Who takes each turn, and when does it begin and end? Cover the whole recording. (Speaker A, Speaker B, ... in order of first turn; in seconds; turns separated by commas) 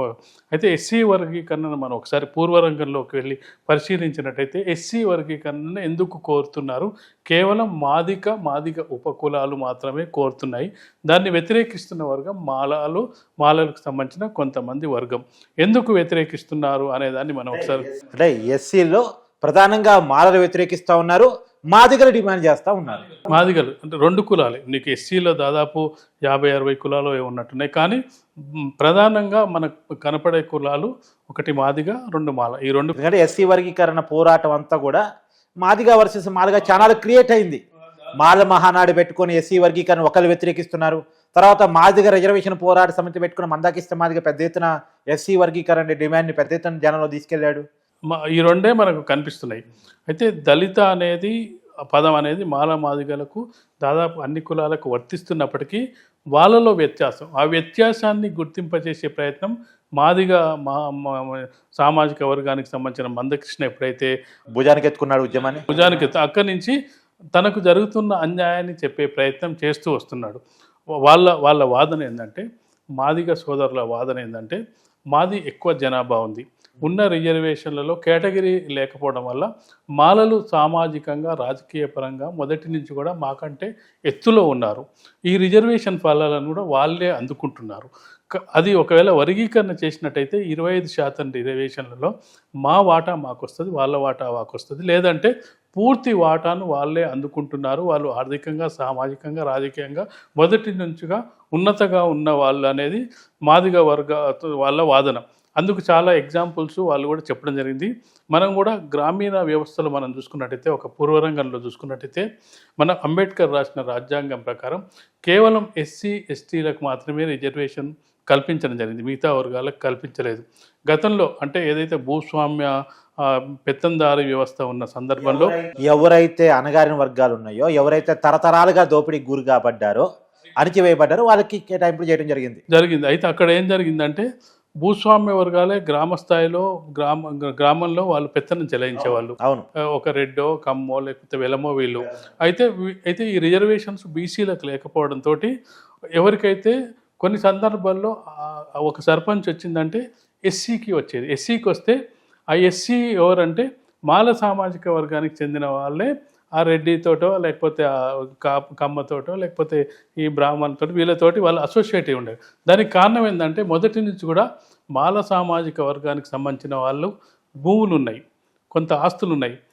Speaker A: 0.5-17.9, Speaker B: 17.5-23.1, Speaker A: 23.3-28.0, Speaker A: 28.8-33.0, Speaker B: 33.0-35.0, Speaker B: 35.6-37.6, Speaker B: 38.2-47.6, Speaker A: 48.1-51.3, Speaker A: 51.9-55.8, Speaker A: 56.4-64.1, Speaker B: 64.5-66.1, Speaker A: 65.7-66.7, Speaker A: 67.3-70.4, Speaker A: 71.1-72.4, Speaker A: 73.0-74.6, Speaker A: 75.1-92.1, Speaker A: 92.7-112.2, Speaker A: 112.8-122.7, Speaker A: 123.2-125.5, Speaker B: 125.2-130.1, Speaker B: 130.6-132.6, Speaker A: 132.7-134.3, Speaker A: 134.8-139.3, Speaker B: 139.0-139.7, Speaker A: 139.9-145.5, Speaker A: 146.2-152.0, Speaker A: 152.5-157.9, Speaker A: 158.4-164.5, Speaker A: 165.0-167.1, Speaker A: 167.6-168.2, Speaker A: 168.7-169.6